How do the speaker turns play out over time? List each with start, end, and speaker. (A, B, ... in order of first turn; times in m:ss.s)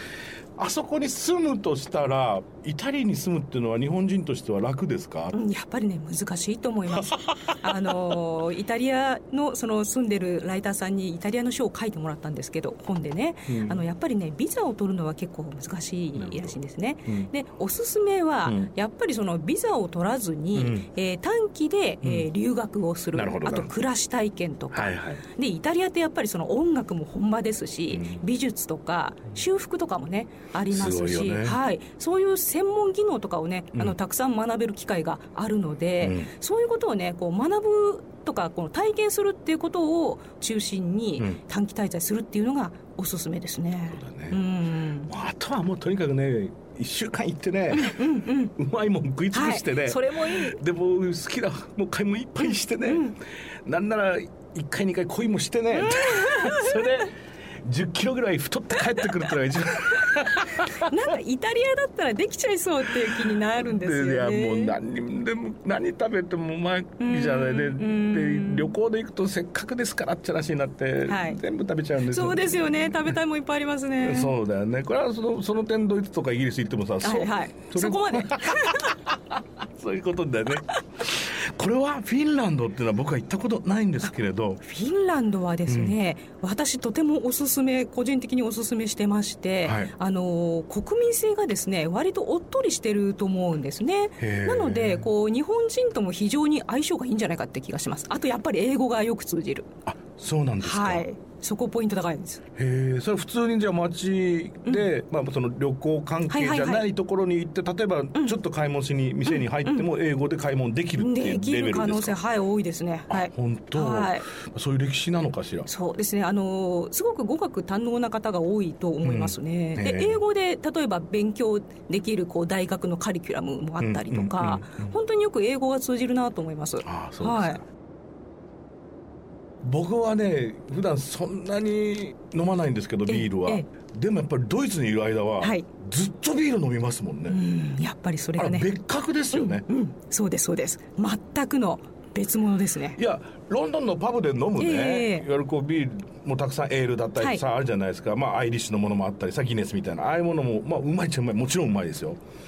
0:00.6-0:05.4 A
0:05.3-0:45.1 B
0:06.9-0:08.0 A
0:13.5-0:13.8 A
0:16.2-0:16.6 A
0:17.1-0:17.3 A
0:18.4-0:18.7 A
0:20.6-0:20.9 A
0:23.1-0:23.7 A
0:24.7-0:25.2 A
0:27.9-0:28.2 A
0:30.7-0:31.6 A
0:36.0-0:36.3 A
0:43.9-0:44.4 A
0:45.1-0:48.0 A
0:47.7-0:48.5 B
0:48.6-1:01.0 A
0:49.3-0:50.6 B
0:52.9-0:53.1 B
0:55.7-0:57.0 B
1:00.7-1:04.8 B
1:03.1-1:13.2 A
1:07.0-1:08.7 B
1:11.1-1:11.4 B
1:12.1-1:14.3 B
1:14.0-1:24.6 A
1:17.0-1:18.9 B
1:24.6-1:39.7 B
1:25.7-1:26.0 A
1:29.6-1:29.9 A
1:34.2-1:35.1 A
1:39.9-1:41.0 A
1:40.6-1:42.4 B
1:42.6-1:52.2 A
1:46.3-1:46.8 B
1:49.3-1:49.8 B
1:51.0-1:54.3 B
1:53.1-1:55.7 A
1:55.7-2:07.6 B
1:59.0-2:00.2 A
2:03.8-2:04.9 A
2:06.8-2:07.6 A
2:09.6-2:17.4 A
2:13.1-2:13.7 B
2:15.4-2:15.7 B
2:17.3-2:18.7 B
2:18.4-2:19.7 A
2:19.3-2:23.0 B
2:23.0-2:32.2 A
2:24.6-2:25.3 B